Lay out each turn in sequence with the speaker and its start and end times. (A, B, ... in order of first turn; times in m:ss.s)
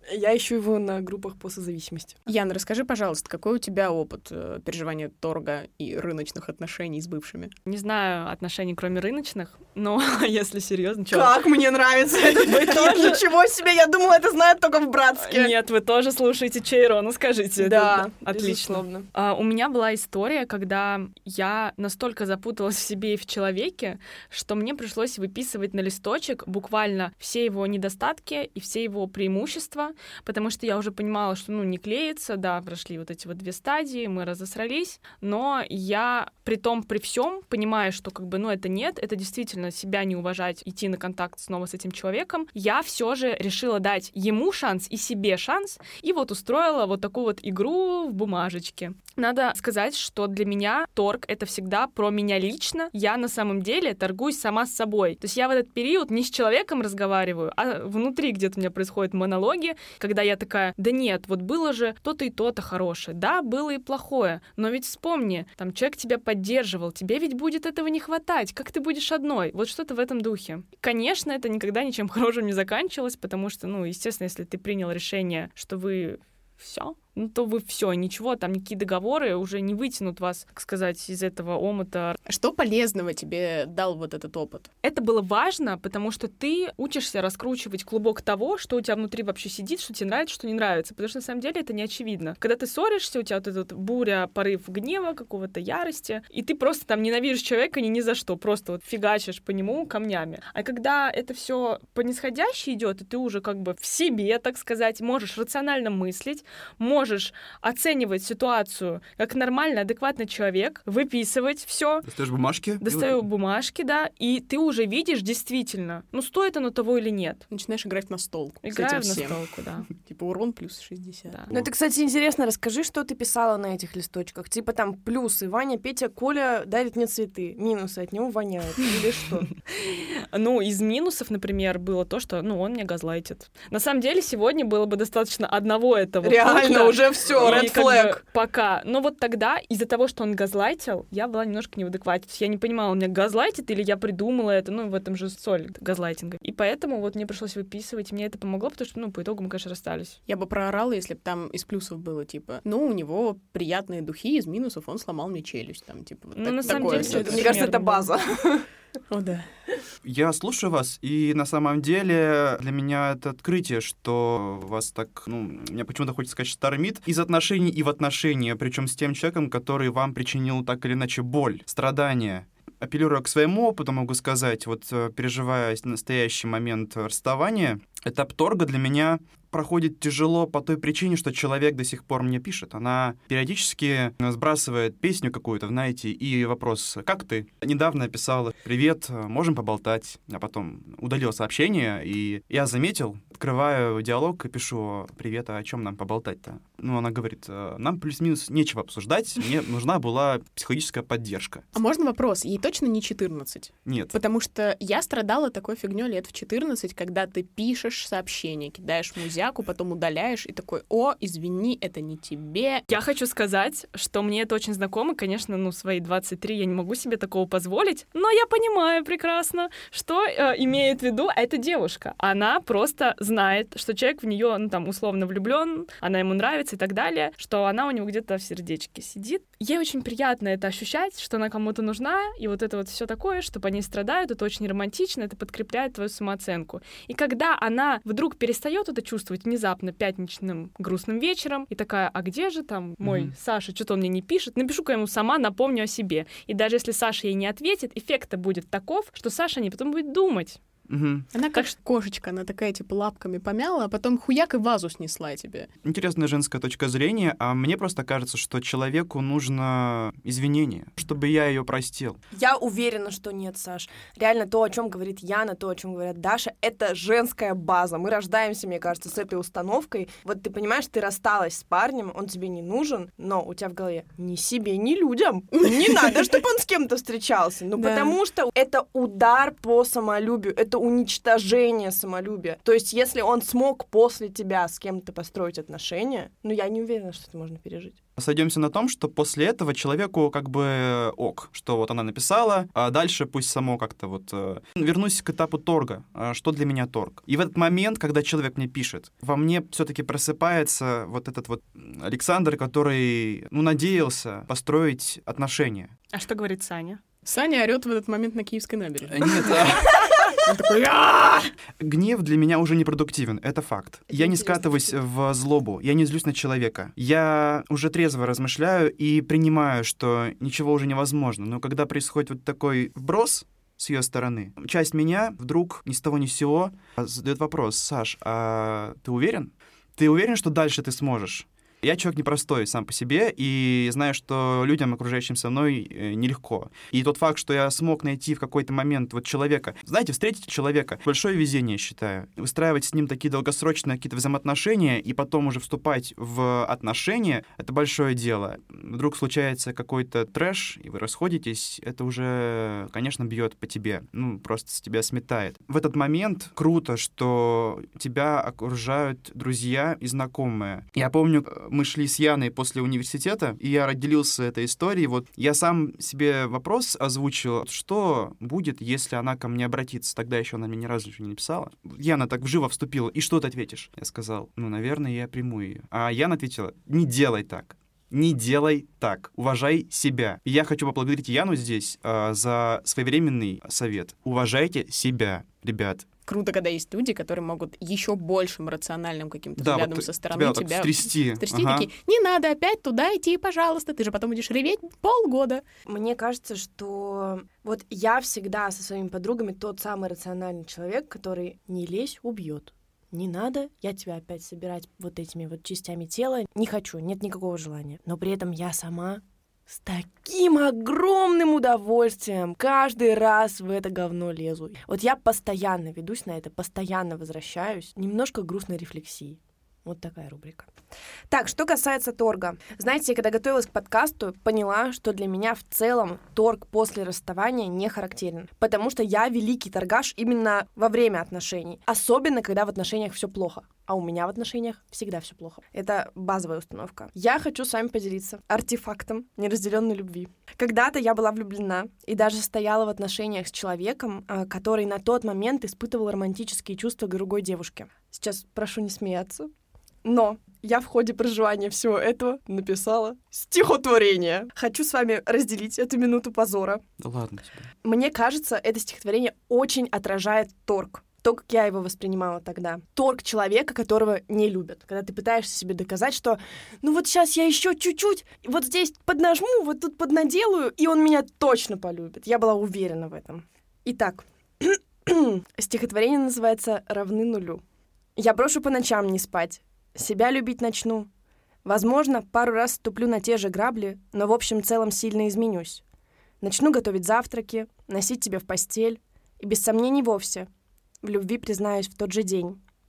0:00.1-0:02.2 A
0:02.3-0:07.5 B
0:07.6-0:11.4 C
0:11.1-0:15.5 A
0:12.2-0:13.2 C
0:15.2-1:22.2 C
0:17.6-0:19.1 A
1:22.2-1:24.7 B
1:24.8-1:52.0 C
1:52.0-1:53.2 D
1:52.8-1:57.5 C
1:57.5-2:01.4 B
1:58.6-1:59.9 C
2:01.5-2:09.5 A
2:09.7-2:30.2 C
2:16.2-2:18.2 A
2:30.3-2:37.7 B
2:36.4-2:38.1 C
2:36.9-2:38.7 A
2:39.1-2:39.4 B
2:40.0-3:21.6 D
3:21.7-3:32.8 B
3:23.8-3:24.1 D
3:32.9-4:10.6 C
4:03.0-4:03.3 D
4:10.9-4:11.3 D
4:11.3-4:15.7 B
4:15.8-4:22.2 D
4:22.3-4:48.0 A
4:37.8-4:38.2 B
4:48.2-5:05.9 D
5:06.1-5:07.0 C
5:07.2-5:11.5 B
5:09.1-5:10.0 D
5:11.8-6:26.1 D
5:14.1-5:15.0 A
6:26.2-6:35.6 B
6:29.6-6:31.9 D
6:35.9-7:00.7 A
7:01.3-7:29.5 A
7:30.0-7:36.8 A
7:37.0-7:37.7 D
7:37.8-7:57.6 A
7:58.2-8:01.1 A
8:01.6-8:05.8 A
8:06.4-8:10.5 A
8:11.0-8:12.6 A